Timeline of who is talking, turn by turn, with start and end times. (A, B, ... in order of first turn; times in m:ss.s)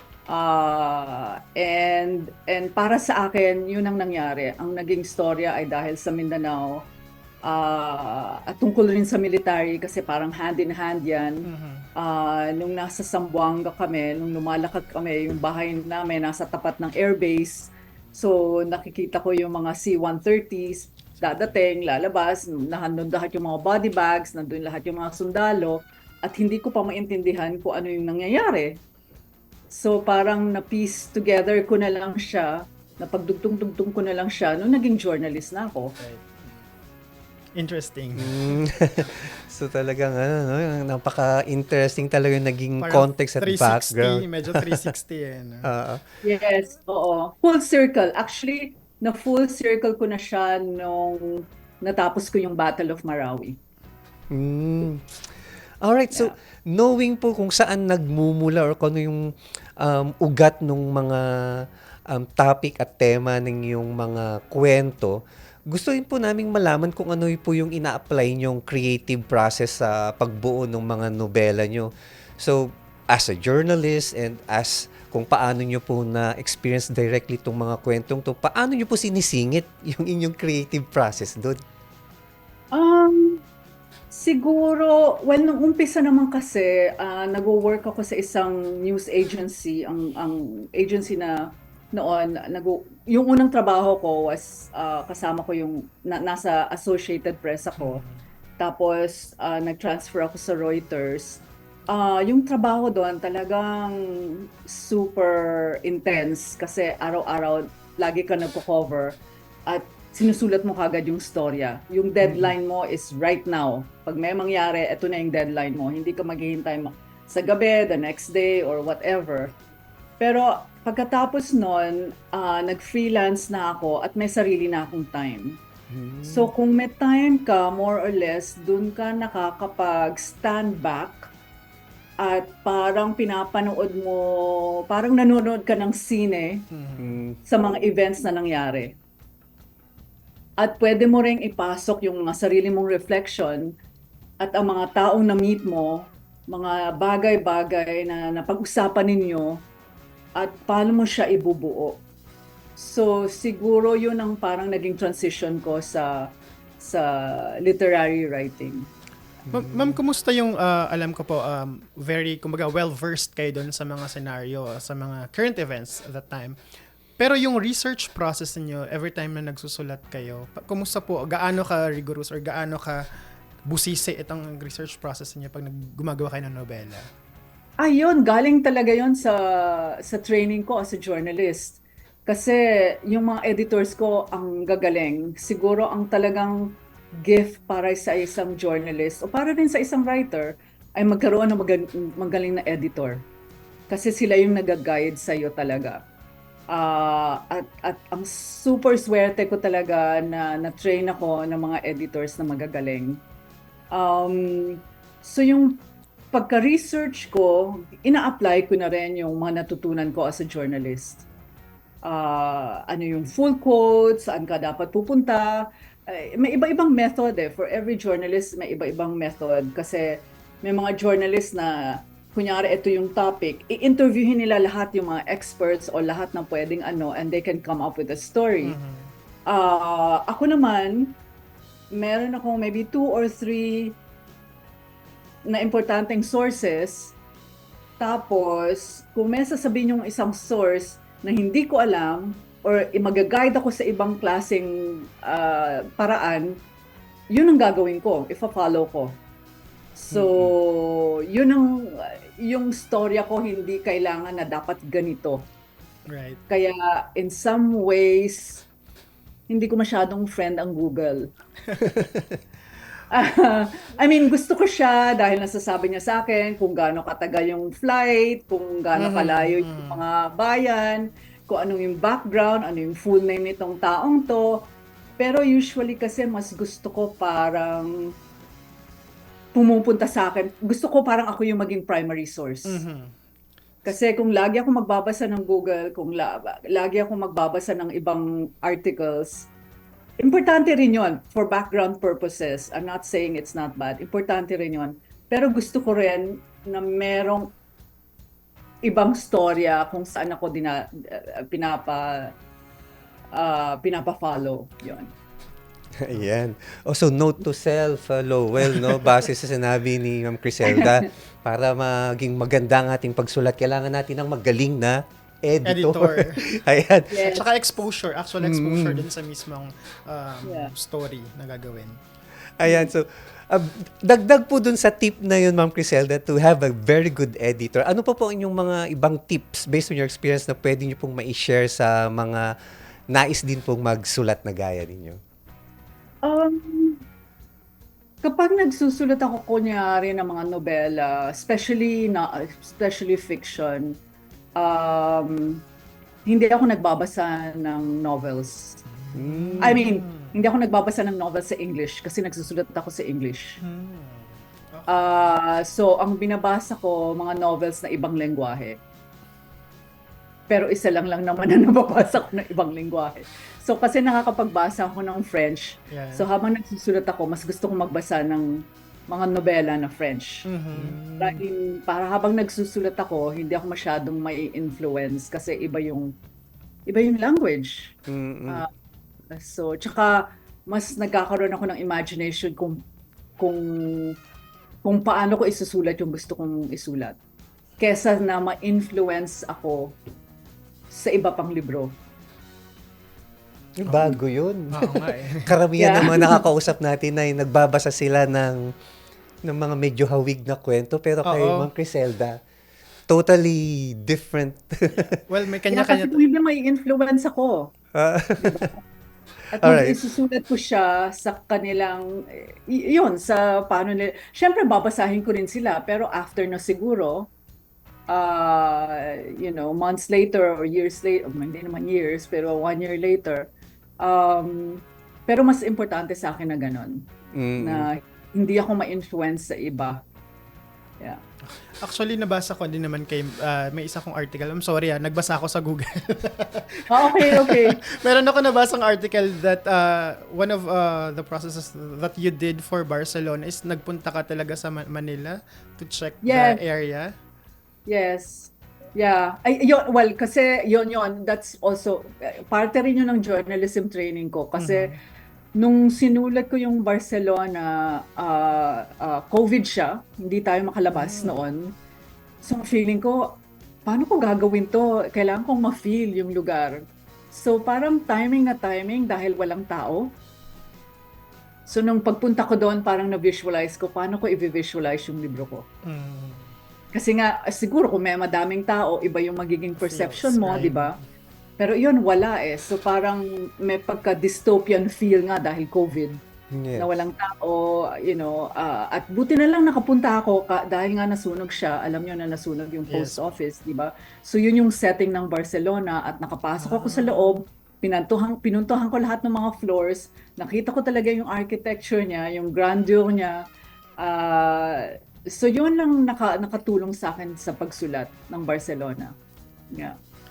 0:00.3-0:06.8 A
0:07.4-0:28.8 A
0:11.5-0:11.9 B
0:21.2-0:21.5 B
0:29.7-0:35.9 A
0:36.0-0:36.5 B
0:37.6-0:38.5 B
0:38.2-0:44.8 C
0:42.8-0:45.7 B
0:45.7-0:46.0 C
0:46.2-0:53.6 A
0:54.3-0:55.0 C
0:55.8-0:59.2 C
0:59.8-1:01.2 C
1:02.1-1:05.2 C
1:05.7-1:21.6 C
1:22.7-1:23.4 A
1:24.1-1:31.4 A
1:31.9-1:38.0 A
1:37.8-1:38.2 B
1:38.6-1:59.5 A
1:52.2-1:52.5 C
2:00.2-2:05.6 A
2:05.9-2:06.5 C
2:06.2-2:11.3 A
2:12.2-2:16.6 A
2:16.7-2:17.2 B
2:17.0-2:17.4 C
2:17.4-2:19.0 A
2:20.6-2:23.7 A
2:24.4-2:29.6 A
2:30.4-2:32.0 A
2:32.8-2:36.2 A
2:36.8-2:38.9 A
2:39.5-2:46.6 B
2:39.5-2:39.9 C
2:47.2-2:53.0 B
2:53.7-2:57.0 B
2:57.8-3:13.2 A
3:13.9-3:16.0 A
3:16.7-3:23.2 A
3:23.9-3:25.7 A
3:26.3-3:31.2 A
3:32.0-3:48.7 A
3:48.6-3:49.1 B
3:49.5-3:51.1 A
3:51.9-3:54.0 A
3:55.4-3:57.1 A
3:58.0-4:06.5 A
4:07.3-4:09.1 A
4:10.0-4:15.4 A
4:10.1-4:10.5 B
4:16.1-4:16.4 B
4:16.5-4:18.6 A
4:19.5-4:21.2 A
4:21.7-4:22.1 B
4:23.1-4:34.7 A
4:29.0-4:30.0 B
4:35.2-4:37.9 A
4:39.5-4:42.8 A
4:42.6-4:43.1 B
4:43.8-4:49.5 A
4:50.2-4:57.5 A
4:58.8-5:02.3 A
5:03.3-5:05.1 A
5:06.0-5:17.3 C
5:10.6-5:11.0 A
5:15.6-5:16.4 B
5:17.1-5:17.4 A
5:17.2-5:22.0 B
5:18.4-5:19.0 C
5:20.4-5:20.7 A
5:22.6-5:32.4 C
5:22.6-5:22.9 A
5:33.1-5:35.2 C
5:36.2-5:37.0 A
5:38.2-5:43.9 A
5:44.6-5:45.6 A
5:46.2-5:48.8 A
5:48.9-5:50.4 B
5:49.1-5:49.8 C
5:49.6-5:53.5 A
5:53.6-5:55.3 B
5:54.9-5:58.8 A
6:00.5-6:08.5 A
6:05.9-6:06.3 B
6:09.1-6:10.4 A
6:10.5-6:11.0 B
6:10.7-6:11.4 C
6:11.2-6:16.1 A
6:16.9-6:17.9 A
6:18.1-6:18.6 C
6:19.3-6:22.8 A
6:23.4-6:24.1 A
6:24.8-6:27.1 A
6:27.8-6:29.9 A
6:30.9-6:31.9 A
6:33.8-6:38.6 C
6:33.9-6:34.1 B
6:34.7-6:35.5 B
6:35.8-6:36.4 A
6:39.4-6:42.4 C
6:41.2-6:41.7 B
6:43.1-6:45.0 C
6:44.9-6:46.1 B
6:45.7-6:47.7 A
6:47.9-6:48.7 C
6:48.4-6:48.8 A
6:49.6-6:57.3 A
6:49.6-6:50.0 C
6:58.1-7:03.4 A
7:04.0-7:07.0 A
7:07.4-7:07.9 C
7:07.6-7:10.0 A
7:11.8-7:27.1 B
7:16.9-7:17.8 A
7:26.2-7:26.6 A
7:27.8-7:34.9 A
7:34.6-7:35.0 B
7:35.6-7:41.7 A
7:40.9-7:41.4 B
7:42.4-7:46.8 A
7:47.3-7:50.1 A
7:51.7-7:55.6 A
7:55.8-7:56.5 B
7:56.9-8:00.9 A
7:59.8-8:01.0 B
8:01.6-8:06.2 A
8:06.5-8:06.9 C
8:06.8-8:23.4 A
8:12.9-8:13.2 B
8:16.6-8:17.4 B
8:24.0-8:29.1 A